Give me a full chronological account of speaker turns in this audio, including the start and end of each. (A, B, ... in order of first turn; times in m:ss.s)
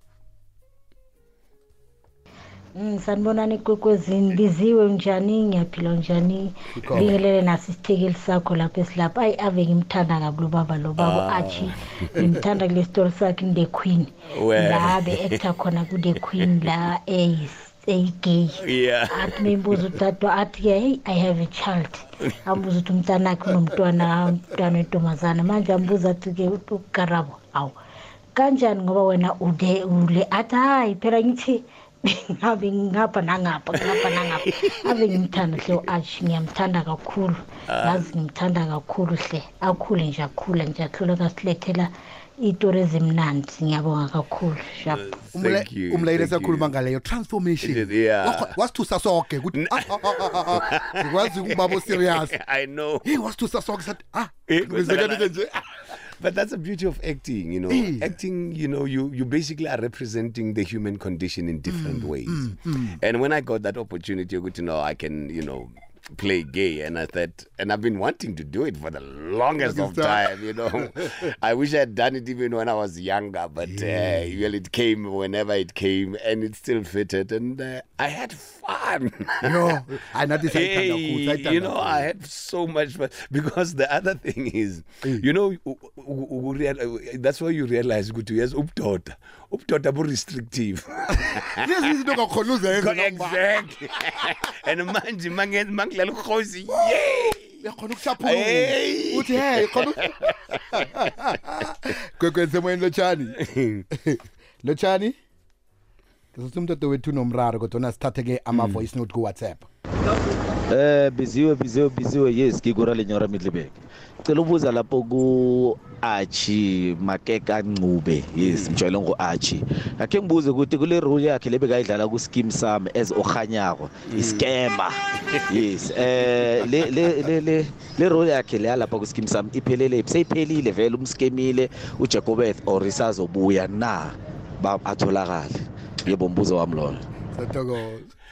0:02.8-0:27.7 A
0:06.9-0:07.1 B
0:11.0-0:12.4 C
0:14.3-0:15.4 C
0:16.4-0:16.7 C
0:18.6-0:19.5 C
0:28.4-0:45.1 A
0:33.8-0:35.8 C
0:37.7-0:38.1 C
0:44.9-0:46.7 C
0:45.3-0:52.4 B
0:47.6-0:48.6 C
0:49.5-0:53.1 C
0:53.0-0:55.7 B
0:54.5-0:55.4 C
0:55.9-1:19.8 C
0:57.7-0:58.2 B
1:01.7-1:03.0 B
1:09.6-1:11.3 B
1:13.6-1:14.4 B
1:19.4-1:22.1 B
1:20.5-1:31.9 C
1:31.2-1:33.4 B
1:32.7-1:37.6 C
1:34.1-1:34.3 B
1:37.6-1:43.4 B
1:38.2-1:40.6 C
1:43.4-1:43.8 C
1:43.9-1:45.2 B
1:46.3-1:49.7 B
1:48.5-1:48.8 C
1:50.7-2:17.0 D
1:58.4-1:58.8 C
2:04.1-2:04.5 C
2:17.3-2:18.1 B